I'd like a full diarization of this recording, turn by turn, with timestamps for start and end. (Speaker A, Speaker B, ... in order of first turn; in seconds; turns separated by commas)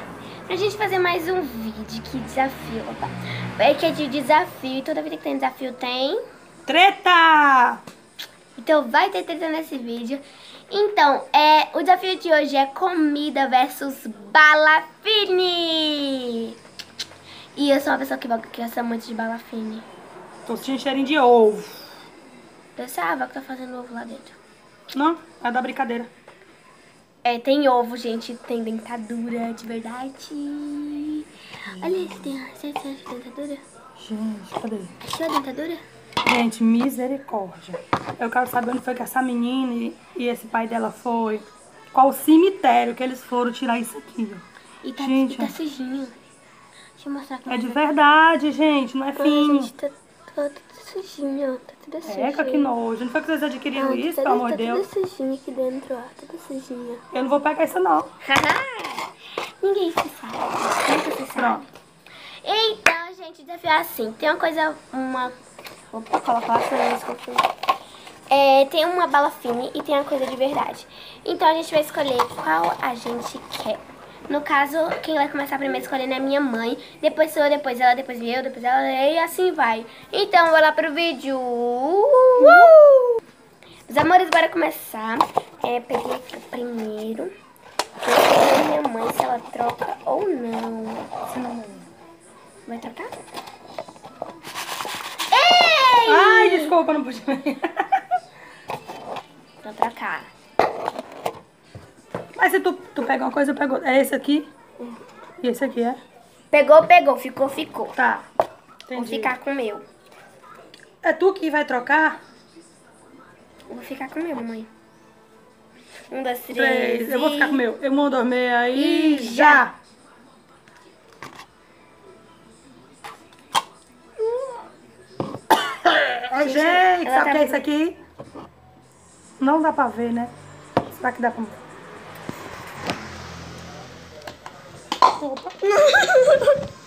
Speaker A: 0.5-6.2, Speaker B: 6.7-7.8, Speaker A: 8.6-16.5, Speaker A: 17.6-19.9, Speaker B: 20.4-21.8, Speaker A: 22.8-24.4, Speaker B: 24.9-26.1, Speaker A: 27.2-33.6, Speaker B: 31.8-32.3, Speaker B: 34.0-34.9, Speaker A: 35.0-35.8, Speaker B: 36.2-44.4, Speaker A: 44.8-46.1, Speaker B: 45.0-45.5, Speaker A: 47.0-48.0, Speaker B: 47.5-49.7, Speaker A: 49.1-52.7, Speaker B: 52.1-54.8, Speaker A: 53.7-57.0, Speaker B: 57.1-58.1, Speaker A: 58.2-59.1, Speaker A: 59.6-61.7, Speaker B: 61.4-61.6, Speaker A: 62.4-65.3, Speaker A: 65.9-67.5, Speaker A: 68.3-83.2, Speaker B: 82.4-82.8, Speaker A: 83.9-87.3, Speaker A: 88.0-91.1, Speaker B: 91.2-91.9, Speaker A: 92.7-93.1, Speaker A: 95.3-96.7, Speaker B: 96.1-98.0, Speaker A: 99.6-100.3, Speaker B: 102.3-104.5, Speaker B: 105.4-106.0, Speaker A: 106.5-107.9, Speaker B: 108.0-108.3, Speaker B: 108.9-109.3, Speaker A: 108.9-109.8, Speaker B: 111.0-112.2, Speaker A: 113.7-114.7, Speaker A: 116.1-117.6, Speaker B: 116.5-119.7, Speaker A: 118.7-119.6, Speaker B: 126.0-128.0, Speaker A: 126.3-127.7, Speaker B: 129.4-130.3, Speaker B: 131.0-131.5, Speaker B: 135.2-135.5, Speaker A: 135.6-136.6